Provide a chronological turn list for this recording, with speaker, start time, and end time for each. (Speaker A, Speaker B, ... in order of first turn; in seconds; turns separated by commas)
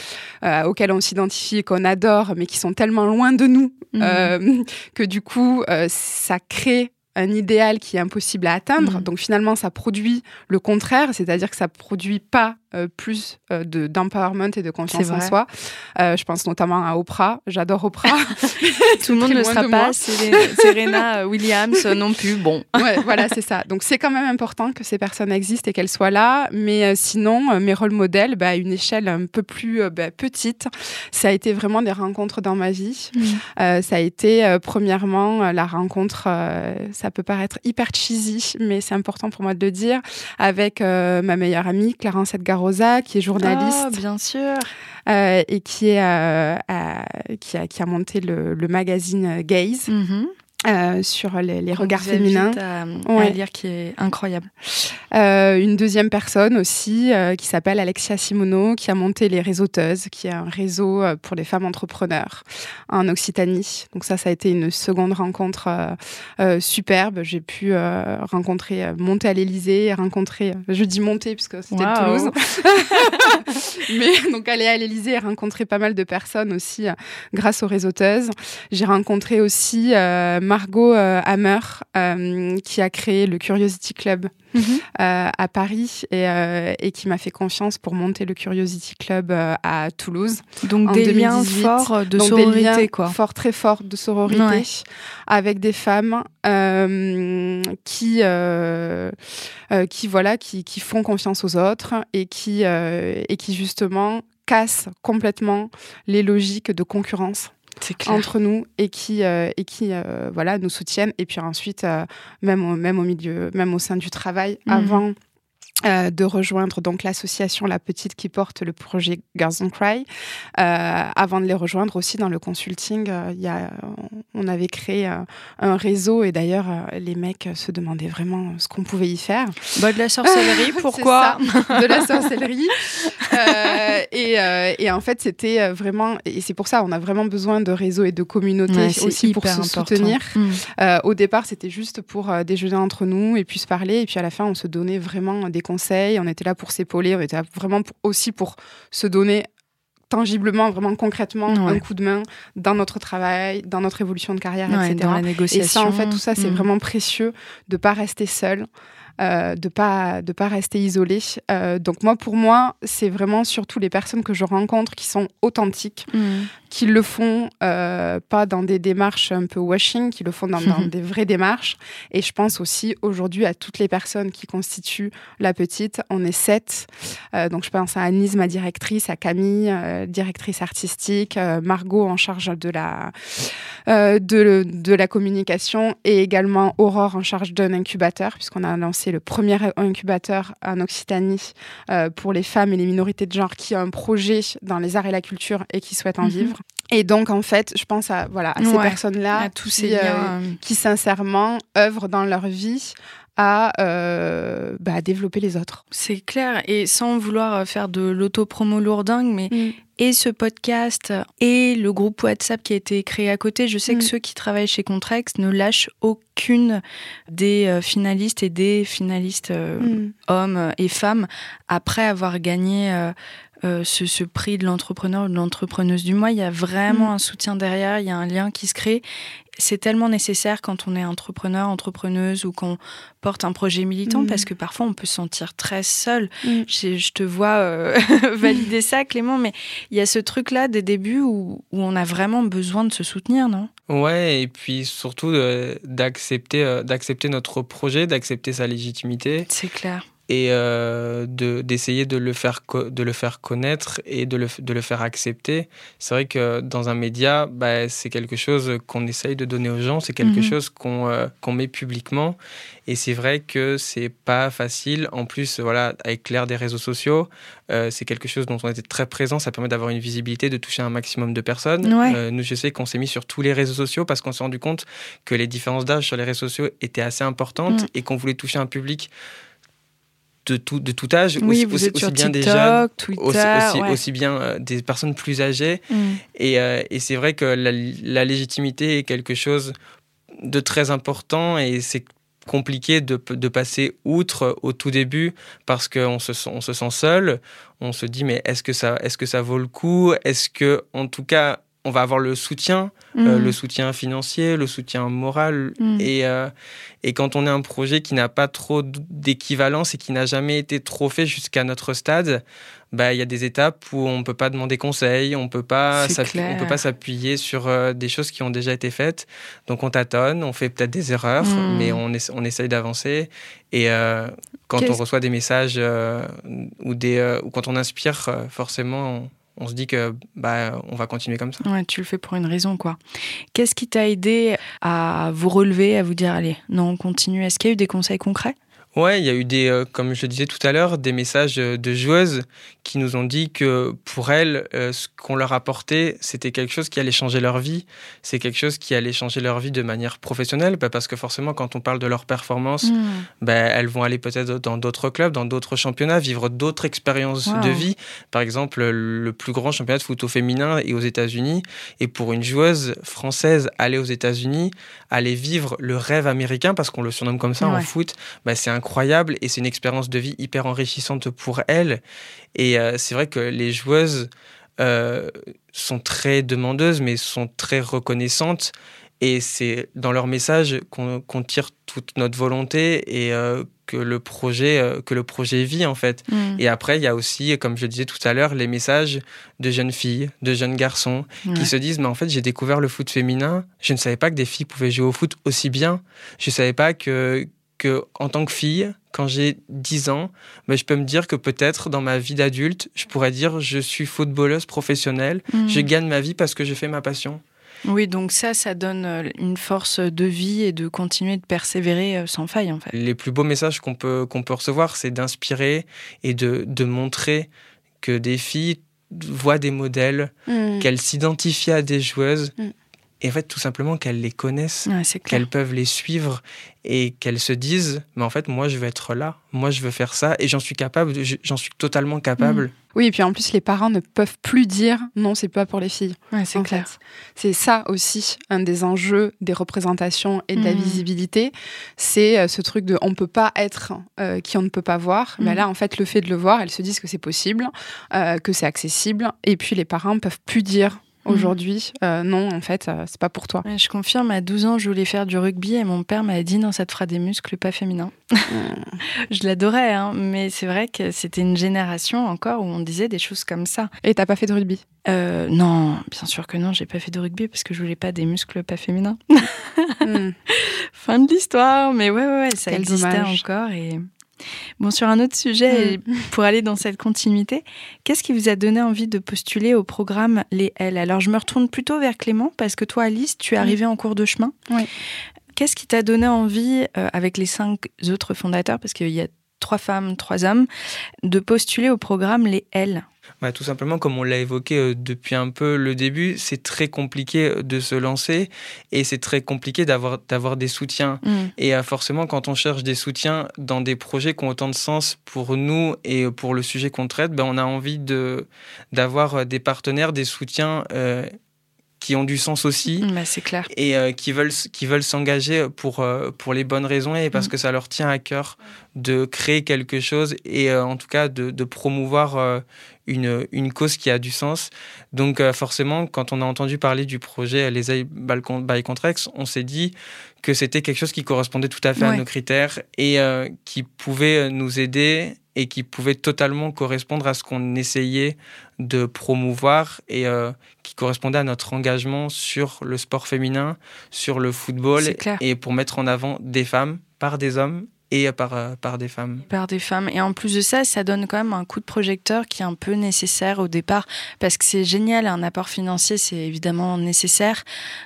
Speaker A: 0.4-21.0, Speaker B: 3.9-4.3, Speaker B: 8.8-9.1, Speaker B: 14.9-15.3, Speaker B: 19.0-23.0, Speaker A: 22.8-44.0, Speaker B: 33.1-33.4, Speaker B: 43.4-44.7, Speaker A: 45.1-49.9, Speaker B: 49.9-50.3, Speaker A: 50.6-53.4, Speaker B: 51.7-54.5, Speaker A: 55.1-84.3, Speaker B: 71.7-72.3, Speaker B: 73.0-73.5, Speaker B: 84.5-84.8, Speaker A: 84.9-99.1, Speaker B: 90.6-93.2, Speaker B: 94.3-94.6, Speaker A: 99.7-107.5, Speaker B: 107.8-108.3, Speaker A: 108.0-115.2, Speaker B: 114.7-115.0, Speaker A: 115.8-120.1, Speaker A: 120.6-129.7, Speaker B: 129.8-132.1, Speaker A: 130.2-149.5, Speaker B: 132.9-133.5, Speaker B: 138.7-140.6, Speaker A: 150.1-158.7, Speaker B: 151.5-151.8, Speaker B: 154.7-156.7, Speaker A: 159.2-166.1, Speaker B: 166.1-166.5, Speaker A: 166.7-205.8, Speaker B: 170.6-170.9, Speaker B: 196.2-196.5, Speaker B: 198.6-200.6, Speaker B: 205.9-229.0, Speaker A: 209.5-209.8, Speaker A: 219.8-220.1, Speaker B: 229.6-243.7, Speaker A: 234.1-234.4, Speaker C: 243.9-249.5, Speaker B: 249.5-250.0, Speaker C: 250.3-279.1, Speaker B: 260.2-260.5, Speaker B: 271.8-272.2, Speaker C: 280.4-285.8, Speaker B: 281.4-284.0, Speaker B: 285.9-286.2, Speaker C: 286.3-289.7, Speaker C: 290.4-306.5, Speaker B: 303.1-303.6, Speaker B: 305.8-306.1, Speaker C: 307.0-331.6, Speaker B: 315.9-316.8, Speaker B: 321.4-322.0, Speaker B: 331.6-333.0, Speaker B: 333.5-338.5, Speaker C: 338.9-372.0, Speaker B: 352.8-353.3, Speaker B: 357.5-357.9, Speaker B: 367.6-367.9, Speaker C: 372.5-407.4, Speaker B: 386.3-386.6, Speaker B: 391.4-391.7, Speaker B: 405.5-405.9, Speaker B: 407.8-412.9, Speaker C: 412.9-417.5, Speaker C: 418.0-422.5, Speaker A: 420.5-420.9, Speaker C: 423.2-432.7, Speaker B: 424.9-425.4, Speaker A: 432.9-453.6, Speaker B: 436.3-436.9, Speaker B: 440.6-441.0, Speaker B: 445.4-445.6, Speaker B: 453.6-458.5, Speaker A: 458.5-459.0, Speaker B: 459.3-463.9, Speaker A: 464.0-464.8, Speaker B: 465.1-474.0, Speaker A: 470.0-470.3, Speaker A: 472.7-473.4, Speaker B: 474.8-484.6, Speaker A: 475.7-476.0, Speaker B: 485.5-490.7, Speaker B: 491.2-493.0, Speaker C: 493.4-511.3, Speaker B: 501.2-501.5, Speaker C: 512.0-513.1, Speaker B: 513.0-513.7, Speaker C: 513.7-549.4, Speaker B: 532.0-532.2, Speaker B: 545.0-545.4, Speaker B: 549.5-557.6